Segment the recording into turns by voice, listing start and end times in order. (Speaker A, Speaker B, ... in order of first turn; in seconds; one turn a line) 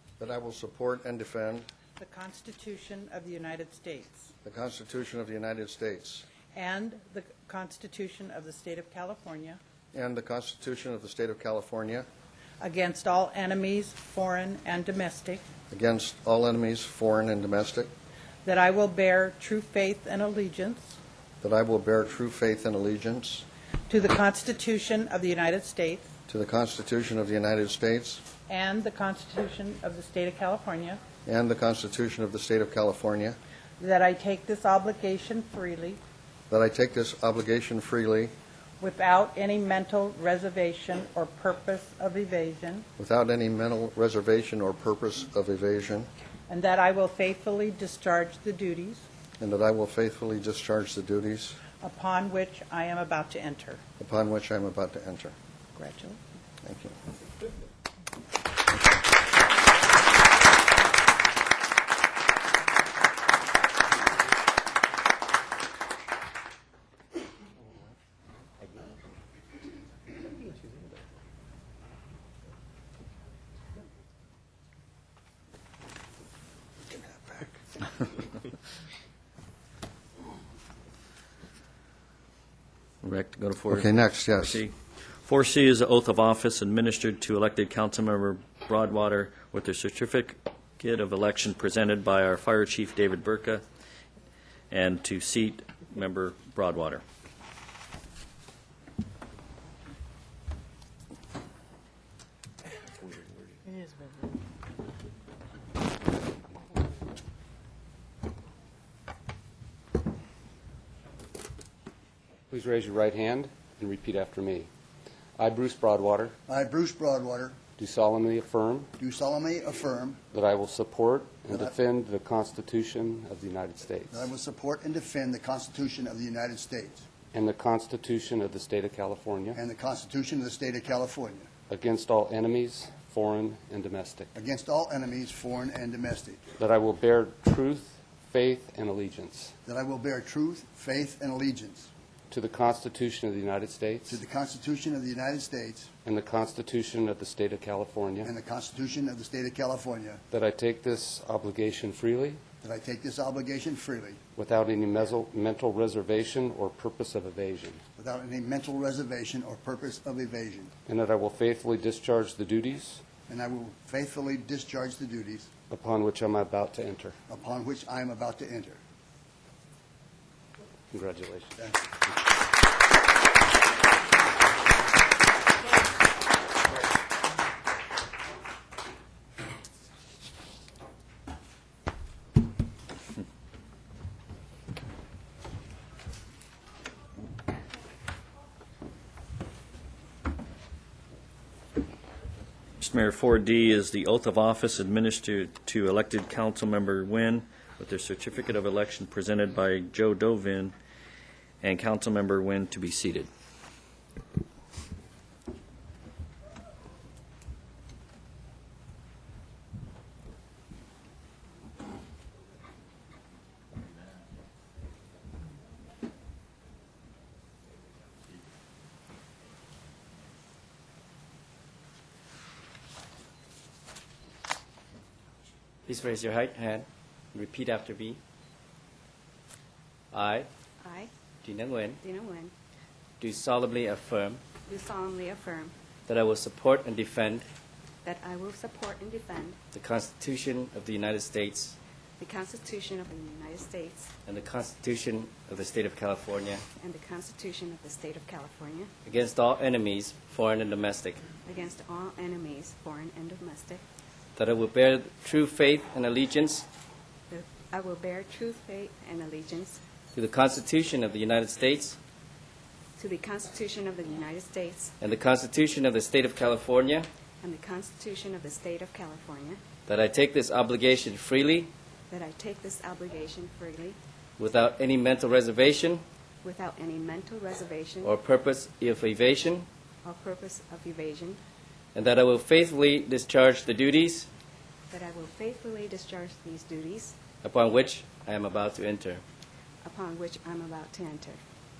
Speaker A: 0.2-1.7
Speaker B: 2.0-4.3
Speaker A: 4.4-6.2
Speaker B: 6.5-9.6
Speaker A: 9.9-12.1
Speaker B: 12.6-15.4
Speaker A: 15.7-17.9
Speaker B: 18.4-21.0
Speaker A: 21.4-23.4
Speaker B: 23.9-26.1
Speaker A: 26.3-28.2
Speaker B: 28.5-31.0
Speaker A: 31.2-33.4
Speaker B: 33.8-36.0
Speaker A: 36.5-38.3
Speaker B: 38.8-42.9
Speaker A: 43.0-46.1
Speaker B: 46.5-49.0
Speaker A: 49.4-51.6
Speaker B: 51.8-53.8
Speaker A: 54.0-55.3
Speaker B: 55.7-56.2
Speaker A: 56.6-56.9
Speaker C: 83.0-84.7
Speaker A: 83.7-84.6
Speaker C: 85.2-93.6
Speaker C: 94.7-97.0
Speaker D: 112.5-114.7
Speaker D: 115.4-116.3
Speaker E: 116.5-117.6
Speaker D: 117.8-118.9
Speaker E: 119.0-120.2
Speaker D: 120.3-124.3
Speaker E: 124.1-127.0
Speaker D: 127.3-129.6
Speaker E: 129.5-131.5
Speaker D: 131.7-134.3
Speaker E: 134.3-136.4
Speaker D: 136.6-139.5
Speaker E: 139.7-141.9
Speaker D: 142.3-144.2
Speaker E: 144.1-145.9
Speaker D: 146.0-148.3
Speaker E: 148.2-150.2
Speaker D: 150.3-152.4
Speaker E: 152.6-154.2
Speaker D: 154.3-157.8
Speaker E: 158.0-160.7
Speaker D: 160.9-163.0
Speaker E: 163.3-165.5
Speaker D: 165.7-167.2
Speaker E: 167.3-168.8
Speaker D: 170.9-171.6
Speaker C: 192.8-200.7
Speaker C: 201.6-203.3
Speaker F: 225.8-228.2
Speaker F: 230.1-230.5
Speaker G: 230.8-231.1
Speaker F: 231.4-232.0
Speaker G: 232.0-232.5
Speaker F: 233.2-234.4
Speaker G: 234.7-235.7
Speaker F: 236.1-237.4
Speaker G: 238.0-239.6
Speaker F: 239.7-241.8
Speaker G: 242.2-244.1
Speaker F: 244.3-246.6
Speaker G: 246.8-248.9
Speaker F: 249.1-251.2
Speaker G: 251.4-253.8
Speaker F: 254.3-256.6
Speaker G: 257.3-259.8
Speaker F: 260.1-262.0
Speaker G: 263.0-264.9
Speaker F: 265.0-267.1
Speaker G: 267.4-269.6
Speaker F: 269.9-271.7
Speaker G: 272.1-274.0
Speaker F: 274.4-276.0
Speaker G: 276.4-278.2
Speaker F: 278.0-279.6
Speaker G: 280.0-281.4
Speaker F: 281.9-284.3
Speaker G: 284.9-287.2
Speaker F: 287.4-289.2
Speaker G: 289.8-291.4